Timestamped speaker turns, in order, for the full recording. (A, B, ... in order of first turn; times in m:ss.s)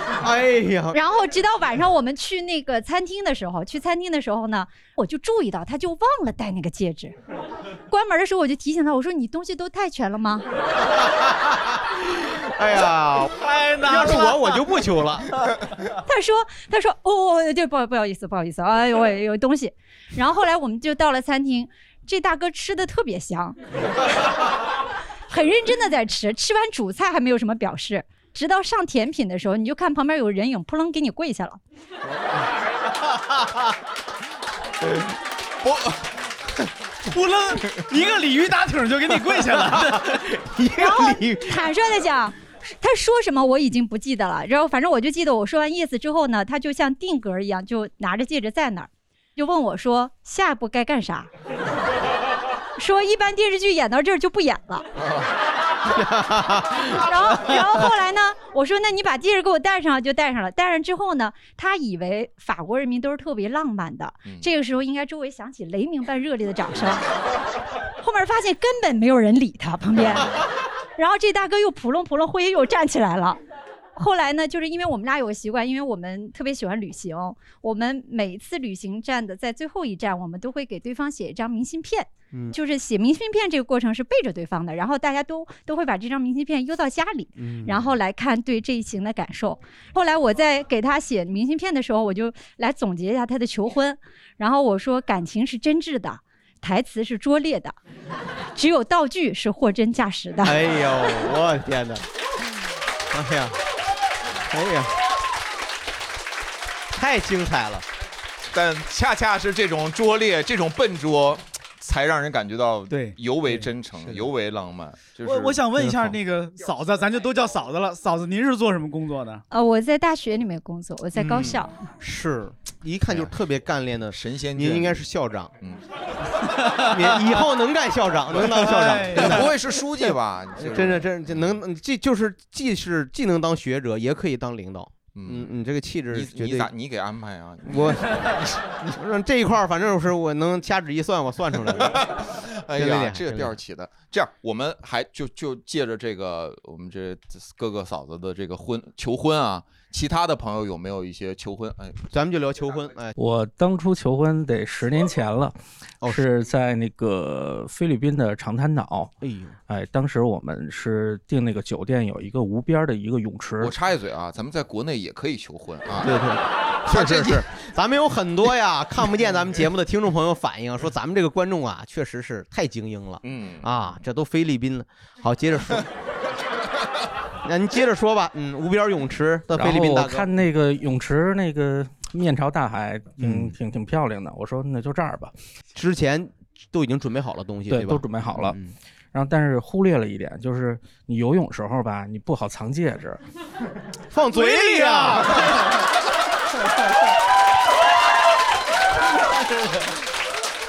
0:00.2-0:01.0 A
0:00.9-0:07.1 B
0:07.9-0:10.4 B
0:12.5-0:15.3 A
0:13.6-0:14.3 C
0:16.0-0:23.6 B
0:25.3-0:31.6 B
0:35.6-0:35.9 D
0:37.0-0:40.2 C
0:39.6-0:41.6 A
0:40.8-0:51.3 B
0:52.8-0:54.8 B
0:55.9-0:56.9 A
0:56.9-1:07.0 B
1:08.0-1:10.4 B
1:11.0-1:13.4 B
1:14.0-1:37.8 B
1:22.3-1:22.6 A
1:27.4-1:28.0 A
1:38.6-1:40.6 B
1:40.4-1:42.0 A
1:43.1-1:43.6 A
1:44.5-1:44.9 A
1:46.9-1:47.8 A
1:48.5-1:55.6 D
1:52.9-1:53.6 C
1:55.2-1:59.4 C
1:59.5-2:01.7 B
2:01.2-2:05.5 A
2:04.1-2:05.0 D
2:06.8-2:09.5 A
2:08.4-2:09.5 C
2:09.1-2:11.5 D
2:10.6-2:16.7 A
2:15.1-2:15.5 D
2:16.1-2:18.4 D
2:17.6-2:18.3 A
2:18.8-2:22.0 A
2:21.7-2:32.0 D
2:22.7-2:23.6 A
2:32.1-2:33.2 A
2:33.2-2:39.1 E
2:39.2-2:39.6 A
2:39.7-2:43.7 E
2:43.6-2:46.2 D
2:46.0-2:55.9 A
2:46.9-2:47.4 D
2:53.2-2:53.8 D
2:57.4-3:00.3 A
2:59.5-3:05.3 E
3:03.2-3:03.5 A
3:05.7-3:08.7 A
3:07.7-3:08.6 E
3:09.1-3:13.2 E
3:14.1-3:15.6 A
3:14.3-3:15.5 C